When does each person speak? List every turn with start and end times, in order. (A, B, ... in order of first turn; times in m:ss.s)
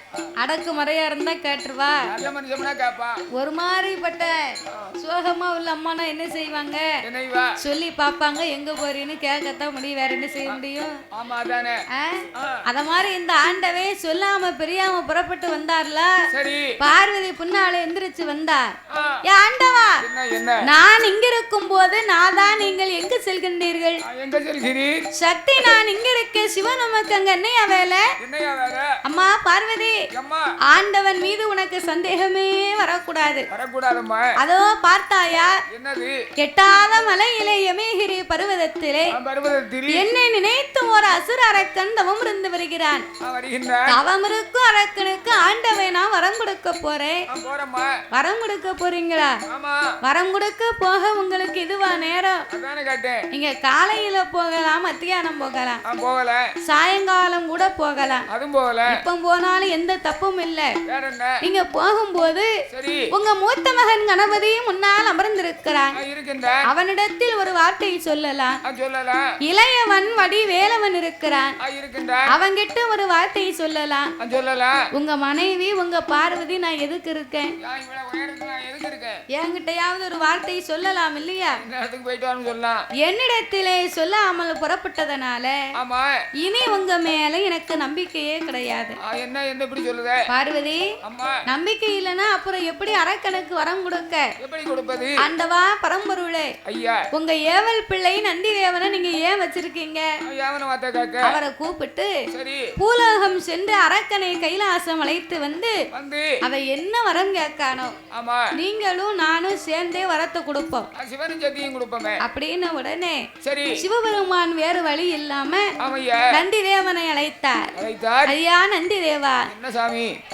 0:00.4-0:02.1 A
0:02.0-0:03.2 B
0:03.3-0:06.9 A
0:04.7-0:04.9 B
0:07.0-0:07.5 B
0:07.6-0:11.0 A
0:11.1-0:11.8 B
0:11.9-0:16.2 A
0:12.3-0:12.6 B
0:16.3-0:16.8 B
0:16.8-0:20.0 A
0:18.9-0:19.2 B
0:20.0-0:20.6 B
0:20.6-0:24.0 A
0:24.0-0:25.8 B
0:25.1-0:28.1 A
0:28.2-0:29.0 B
0:29.0-0:30.0 A
0:30.1-0:30.5 B
0:30.7-0:33.5 A
0:33.5-0:34.3 B
0:34.4-0:35.6 A
0:35.7-0:36.2 B
0:36.4-0:39.1 A
0:39.1-0:40.1 B
0:39.9-0:43.0 A
0:43.2-0:44.0 B
0:43.9-0:47.2 A
0:47.3-0:48.0 B
0:48.1-0:49.4 A
0:49.5-0:49.9 B
0:50.0-0:52.4 A
0:52.5-0:53.3 B
0:53.3-0:55.8 A
0:55.8-0:56.5 B
0:56.6-0:58.3 A
0:58.3-0:59.0 B
0:58.9-1:00.7 A
1:00.9-1:01.4 B
1:01.4-1:02.5 A
1:02.7-1:03.1 B
1:03.1-1:06.0 A
1:05.9-1:06.6 B
1:06.6-1:08.6 A
1:08.6-1:09.2 B
1:09.4-1:11.5 A
1:11.6-1:12.3 B
1:12.3-1:14.1 A
1:14.2-1:14.9 B
1:14.9-1:17.5 A
1:17.6-1:19.2 B
1:19.3-1:21.6 A
1:21.5-1:22.9 B
1:23.0-1:25.6 A
1:25.8-1:26.2 B
1:26.4-1:29.0 A
1:29.0-1:30.3 B
1:30.3-1:30.9 A
1:31.0-1:31.4 B
1:31.4-1:34.3 A
1:34.4-1:35.2 B
1:35.2-1:36.5 A
1:36.6-1:37.0 B
1:37.1-1:40.1 A
1:40.2-1:41.4 B
1:41.2-1:42.2 A
1:42.3-1:42.7 B
1:42.8-1:45.8 A
1:45.9-1:46.4 B
1:46.4-1:47.9 A
1:48.1-1:48.5 B
1:48.5-1:50.9 A
1:50.9-1:52.2 B
1:52.2-1:55.7 A
1:53.4-1:53.8 B
1:55.8-1:56.3 B
1:56.3-1:57.7 A
1:57.8-1:58.4 B
1:58.3-1:59.5 A
1:59.5-2:00.2 B